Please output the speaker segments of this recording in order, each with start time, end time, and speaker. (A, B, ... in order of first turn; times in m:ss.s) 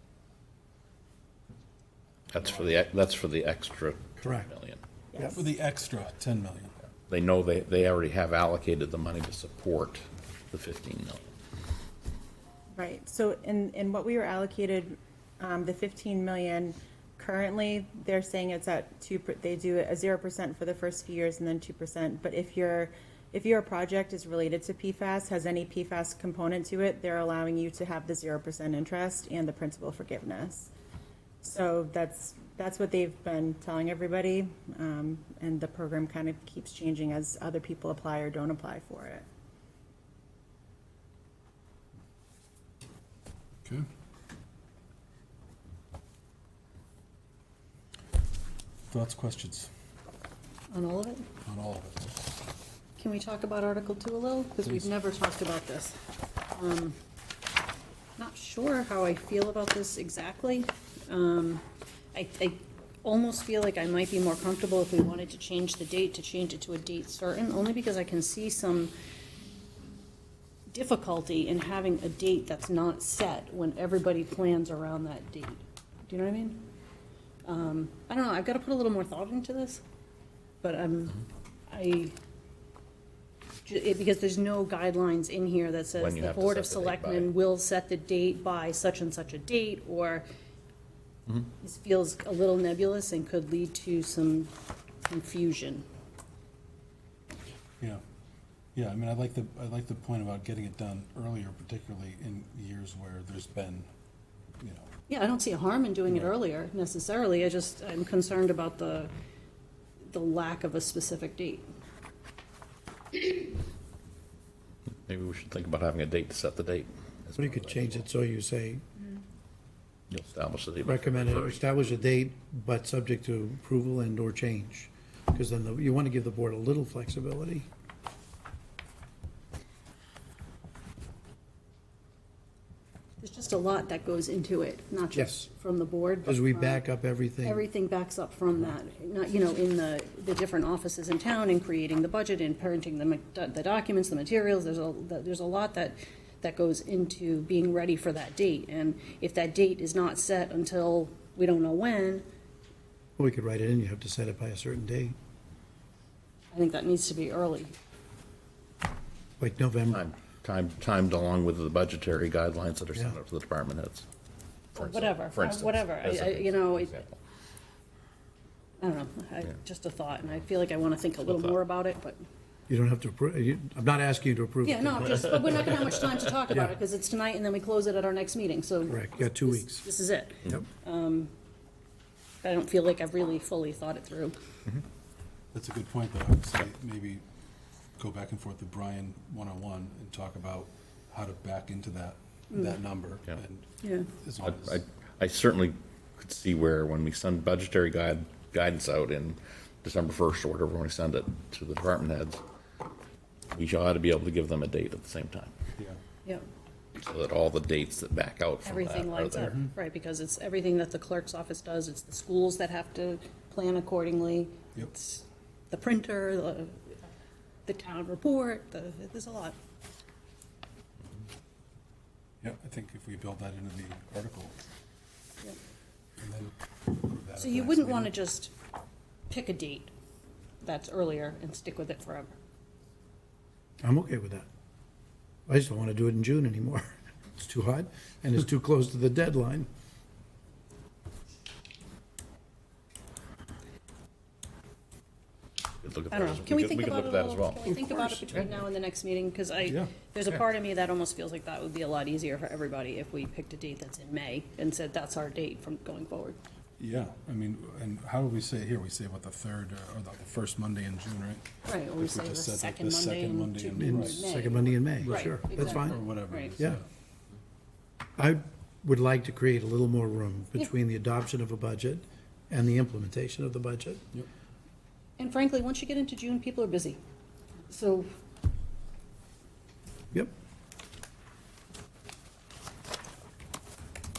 0:02.3-0:04.8 A
0:02.4-0:02.7 B
0:04.2-0:04.5 C
0:05.1-0:05.4 D
0:05.3-0:06.7 B
0:07.1-0:11.2 A
0:12.7-0:30.7 D
0:31.4-0:39.2 D
0:48.9-0:49.7 B
0:50.7-0:51.3 E
0:51.4-0:52.1 B
0:53.0-0:56.0 E
0:56.5-0:57.0 E
0:58.2-1:08.9 E
1:10.7-1:16.6 E
1:17.4-1:19.8 E
1:20.6-1:22.2 E
1:23.6-1:30.3 E
1:26.0-1:27.3 A
1:31.6-1:34.5 E
1:35.0-1:35.8 E
1:38.7-1:43.9 B
1:44.6-1:44.9 B
1:45.1-1:49.1 E
1:50.0-1:51.7 E
1:55.0-1:58.1 A
1:57.4-1:58.8 C
2:00.1-2:01.6 A
2:00.8-2:07.7 C
2:13.2-2:16.8 E
2:15.1-2:15.5 C
2:16.2-2:17.7 C
2:17.4-2:32.2 E
2:33.2-2:35.1 C
2:36.5-2:37.7 E
2:39.4-2:40.0 C
2:39.9-2:44.1 A
2:44.7-2:47.1 A
2:44.8-2:47.0 E
2:48.8-2:52.2 E
2:52.7-2:55.6 C
2:54.6-3:01.3 E
2:58.8-2:59.8 C
3:02.4-3:04.4 E
3:05.5-3:07.2 B
3:08.0-3:13.7 B
3:12.5-3:12.8 E
3:13.8-3:14.1 E
3:14.2-3:14.8 B
3:14.4-3:22.4 A
3:23.5-3:25.5 A
3:27.0-3:29.6 A
3:28.6-3:36.8 E
3:29.4-3:29.7 B
3:37.6-3:39.6 E
3:42.4-3:44.5 B
3:46.2-3:48.1 B
3:47.4-3:48.5 E
3:49.3-3:49.9 E
3:50.6-3:52.3 E
3:53.8-3:54.5 C
3:55.5-3:59.7 C
4:05.8-4:08.5 A
4:06.1-4:16.4 E
4:09.6-4:09.9 B
4:16.8-4:24.3 B
4:21.6-4:26.6 E
4:23.8-4:26.0 C
4:25.0-4:26.8 B
4:28.2-4:34.0 C
4:35.2-4:37.0 E
4:37.7-4:38.1 E